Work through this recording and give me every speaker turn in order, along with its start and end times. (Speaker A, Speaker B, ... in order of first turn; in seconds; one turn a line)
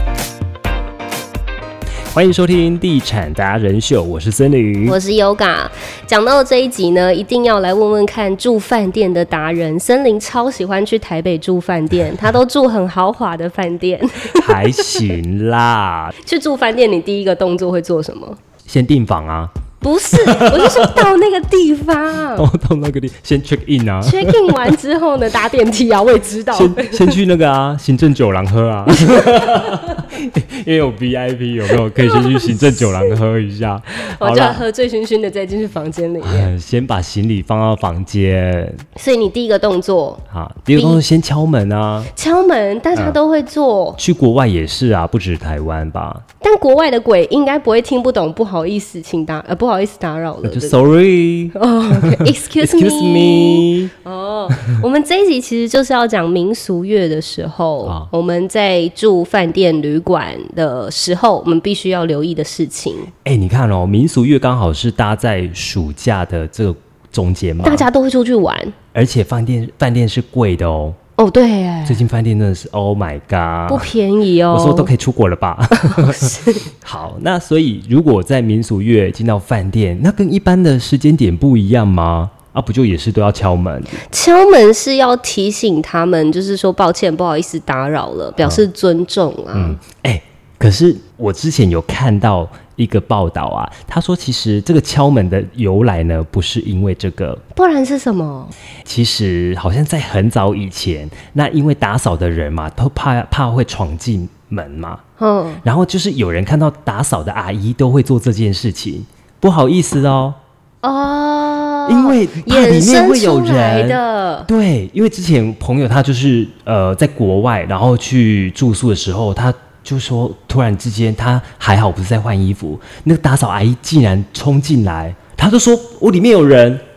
Speaker A: 2.1-5.0
Speaker B: 4.9-14.9
Speaker A: 14.3-16.1
Speaker B: 16.2-18.4
Speaker A: 18.7-19.5
Speaker B: 19.8-22.5
Speaker A: 20.2-21.0
Speaker A: 22.4-24.7
Speaker B: 24.0-27.2
Speaker A: 26.5-34.6
Speaker B: 29.1-29.8
Speaker B: 32.0-33.2
Speaker B: 33.9-36.5
Speaker A: 36.2-38.8
Speaker B: 39.0-41.0
Speaker A: 40.3-42.1
Speaker B: 42.1-44.0
Speaker A: 44.0-46.2
Speaker B: 46.4-50.8
Speaker A: 50.4-51.6
Speaker B: 51.5-63.1
Speaker A: 52.1-53.9
Speaker A: 57.8-58.1
Speaker A: 63.2-67.9
Speaker B: 67.6-68.8
Speaker A: 68.9-71.0
Speaker B: 71.2-72.0
Speaker A: 71.9-73.9
Speaker B: 73.7-74.9
Speaker A: 74.5-84.0
Speaker B: 75.7-76.6
Speaker B: 84.1-89.8
Speaker A: 88.4-88.7
Speaker A: 89.5-97.4
Speaker B: 97.5-98.5
Speaker A: 98.8-105.0
Speaker B: 105.2-105.6
Speaker A: 105.6-110.4
Speaker B: 110.8-114.5
Speaker A: 111.9-126.8